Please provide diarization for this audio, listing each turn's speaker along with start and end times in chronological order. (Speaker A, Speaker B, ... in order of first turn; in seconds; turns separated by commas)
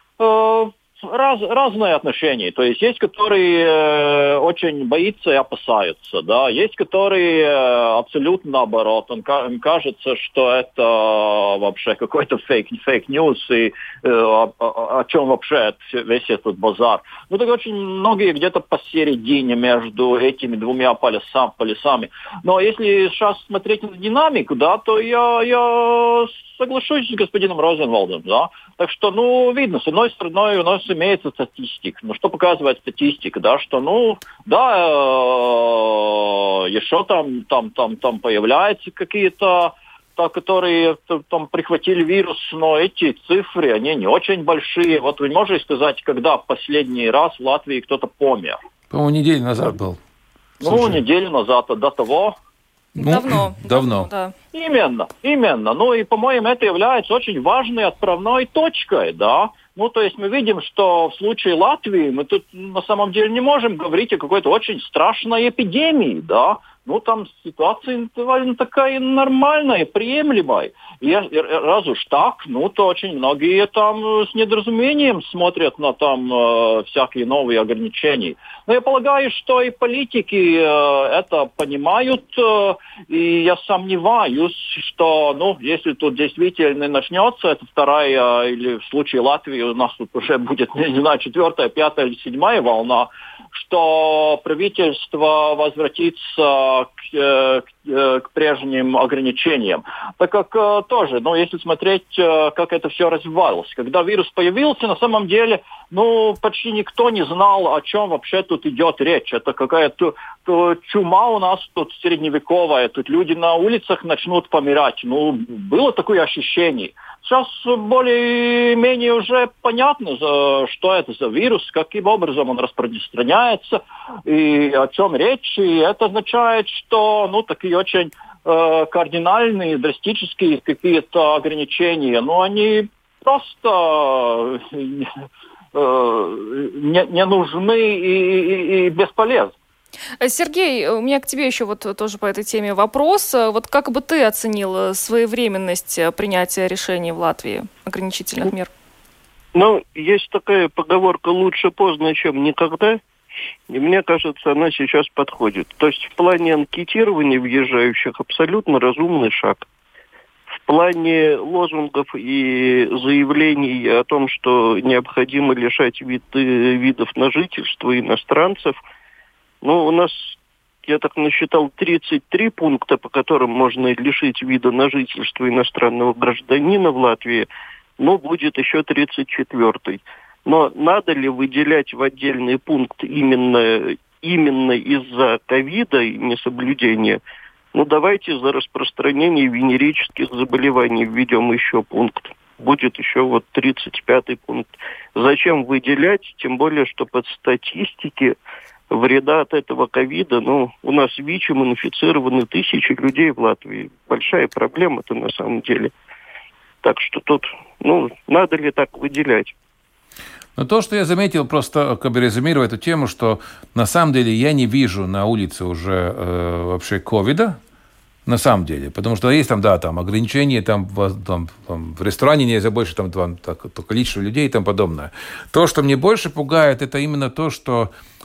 Speaker A: 0.2-48.6, Speaker B: 48.9-50.0, Speaker B: 50.6-51.0, Speaker A: 50.6-52.4, Speaker B: 53.0-54.1, Speaker C: 53.0-54.3, Speaker A: 54.5-135.1, Speaker A: 135.7-139.5, Speaker C: 140.2-148.7, Speaker D: 149.5-153.0, Speaker D: 153.7-159.6, Speaker D: 160.5-168.8, Speaker D: 169.6-177.5, Speaker D: 178.0-187.2, Speaker D: 187.7-198.3, Speaker D: 198.9-205.9, Speaker D: 206.8-209.5, Speaker B: 210.6-217.6, Speaker B: 218.2-227.9